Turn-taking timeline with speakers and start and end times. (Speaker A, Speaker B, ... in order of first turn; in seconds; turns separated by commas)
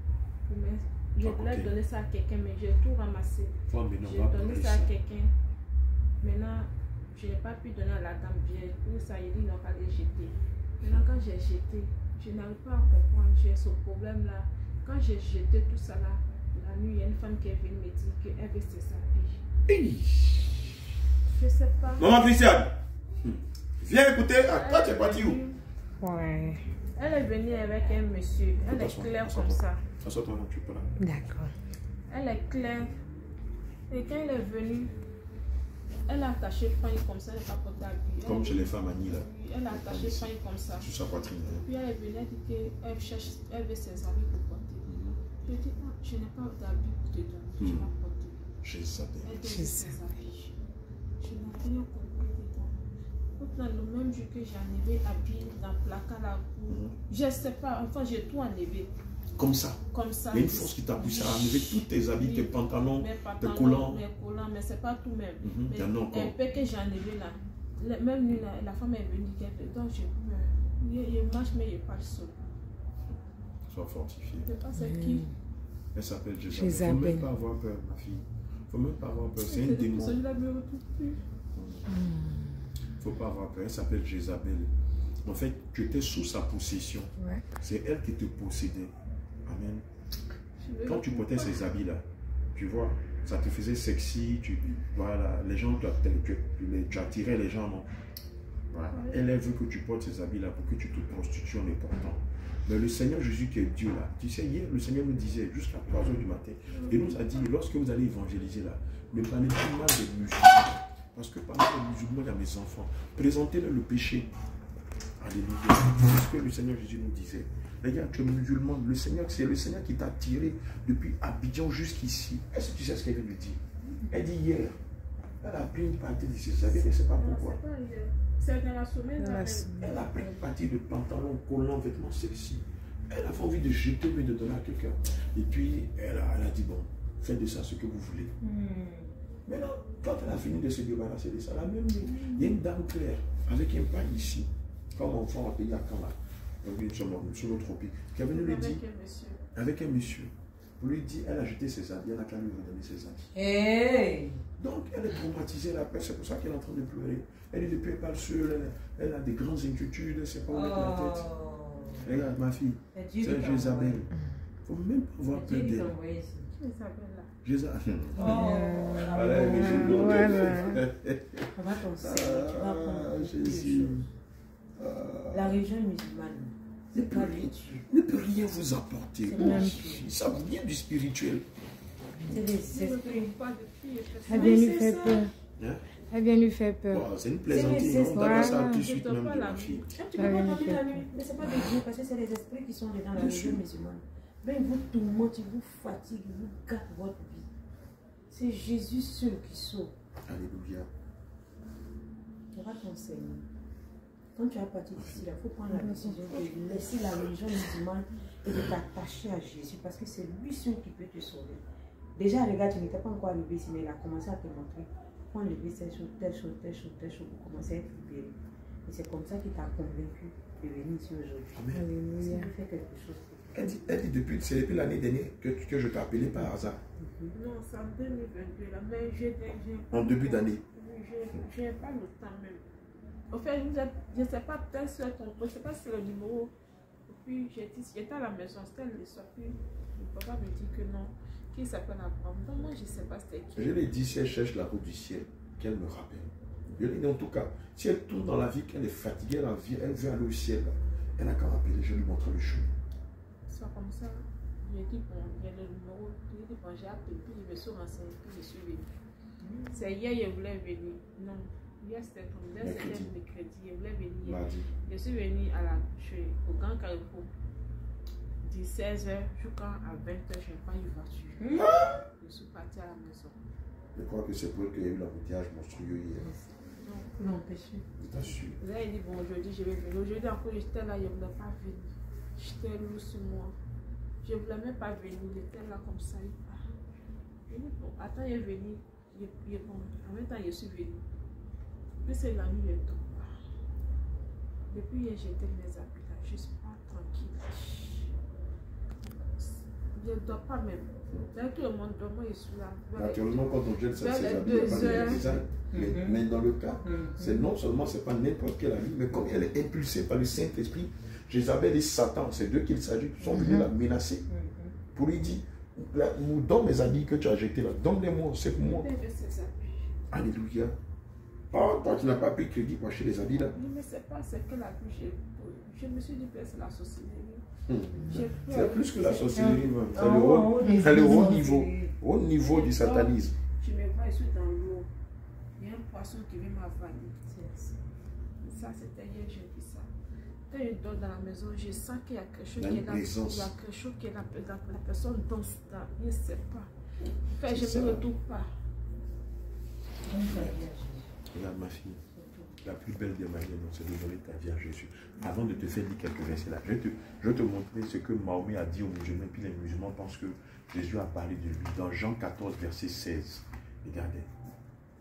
Speaker A: 0.4-5.3, Speaker B: 1.2-1.7, Speaker B: 3.7-4.9, Speaker A: 6.2-19.4, Speaker B: 19.7-20.9, Speaker A: 21.2-22.1, Speaker B: 22.0-25.4, Speaker A: 24.5-25.6, Speaker C: 26.0-26.6, Speaker A: 26.9-29.8, Speaker B: 28.6-30.9, Speaker C: 31.0-31.5, Speaker A: 32.1-33.0, Speaker A: 33.9-34.9, Speaker A: 36.1-40.9, Speaker B: 38.2-41.6, Speaker A: 41.5-44.9, Speaker B: 44.9-45.2, Speaker A: 45.4-48.5, Speaker B: 47.6-47.9, Speaker B: 48.6-49.5, Speaker A: 49.2-50.5, Speaker C: 49.4-50.0, Speaker A: 51.2-52.8, Speaker A: 53.4-58.9, Speaker B: 56.7-56.9, Speaker B: 59.4-64.0, Speaker A: 59.9-72.4, Speaker B: 65.4-66.3, Speaker B: 73.7-74.5, Speaker A: 74.4-75.2, Speaker C: 74.7-75.3, Speaker B: 75.9-80.2, Speaker C: 76.5-77.3, Speaker A: 79.3-81.2, Speaker B: 81.5-81.9, Speaker C: 81.9-82.7, Speaker B: 83.0-84.7, Speaker B: 85.2-88.9, Speaker C: 87.2-87.4, Speaker B: 89.5-89.8, Speaker A: 90.6-91.6, Speaker B: 90.8-97.9, Speaker B: 98.7-114.3, Speaker A: 98.9-99.2, Speaker A: 106.7-107.2, Speaker B: 115.2-124.8, Speaker B: 125.4-127.6, Speaker A: 126.7-130.2, Speaker C: 129.2-129.9, Speaker B: 129.8-138.3, Speaker D: 138.4-139.1, Speaker B: 139.5-148.8, Speaker A: 142.0-142.5, Speaker A: 148.3-149.4, Speaker B: 149.5-153.3, Speaker D: 153.3-154.4, Speaker B: 154.6-161.3, Speaker D: 160.5-162.0, Speaker B: 162.0-164.1, Speaker D: 162.9-164.0, Speaker B: 164.7-165.9, Speaker D: 165.3-166.5, Speaker A: 166.6-167.3, Speaker B: 167.4-174.1, Speaker D: 168.1-170.4, Speaker C: 168.2-170.8, Speaker D: 171.5-174.1, Speaker B: 174.8-175.6, Speaker D: 175.3-177.8, Speaker B: 176.9-181.5, Speaker D: 179.3-180.1, Speaker C: 179.3-179.9, Speaker C: 182.2-183.3, Speaker D: 182.3-183.1, Speaker A: 182.7-185.0, Speaker C: 184.2-185.3, Speaker D: 184.3-185.3, Speaker B: 185.6-185.8, Speaker C: 186.1-187.1, Speaker B: 186.9-189.9, Speaker D: 187.5-188.5, Speaker C: 187.9-188.9, Speaker A: 188.3-190.0, Speaker D: 189.9-197.5, Speaker C: 190.1-191.0, Speaker B: 193.1-193.6, Speaker D: 198.3-199.9, Speaker B: 200.3-200.9, Speaker D: 202.5-203.5, Speaker D: 204.3-211.6, Speaker C: 205.7-206.4, Speaker D: 212.2-223.5, Speaker B: 221.5-221.9, Speaker C: 221.7-222.5, Speaker A: 222.2-222.5, Speaker B: 223.5-226.8, Speaker D: 227.0-227.3, Speaker A: 227.3-232.6, Speaker B: 229.9-230.6, Speaker A: 233.3-236.5, Speaker A: 237.1-243.8, Speaker B: 243.5-252.7, Speaker A: 253.5-258.9, Speaker D: 259.4-259.7, Speaker A: 259.7-267.3, Speaker B: 262.6-263.1, Speaker B: 264.2-264.7, Speaker A: 268.4-271.5, Speaker D: 271.4-271.7, Speaker B: 271.5-272.0, Speaker A: 272.1-273.3, Speaker B: 273.9-276.3, Speaker A: 276.8-277.1, Speaker D: 277.2-277.8, Speaker B: 278.0-278.6, Speaker A: 278.6-283.5, Speaker A: 284.2-286.6, Speaker A: 287.5-291.0, Speaker A: 292.0-293.3, Speaker A: 294.7-298.1, Speaker A: 299.4-305.4, Speaker B: 302.9-314.2, Speaker D: 304.7-305.2, Speaker D: 305.7-306.2, Speaker D: 306.8-307.4, Speaker C: 313.3-313.7, Speaker D: 314.3-314.7, Speaker B: 314.9-318.9, Speaker A: 318.6-319.9, Speaker B: 320.1-320.8, Speaker B: 321.5-323.6, Speaker A: 323.4-327.4, Speaker B: 327.7-333.3, Speaker A: 328.0-329.6, Speaker C: 329.3-329.7, Speaker D: 329.9-331.9, Speaker C: 330.6-331.4, Speaker A: 332.4-334.9, Speaker A: 335.6-337.2, Speaker D: 337.3-337.7, Speaker A: 338.4-339.9, Speaker A: 340.5-346.7, Speaker B: 342.6-343.5, Speaker A: 347.3-348.5, Speaker B: 347.4-348.1, Speaker D: 350.1-351.1, Speaker B: 350.2-350.6, Speaker B: 351.3-352.0, Speaker D: 352.1-352.5, Speaker B: 352.6-364.3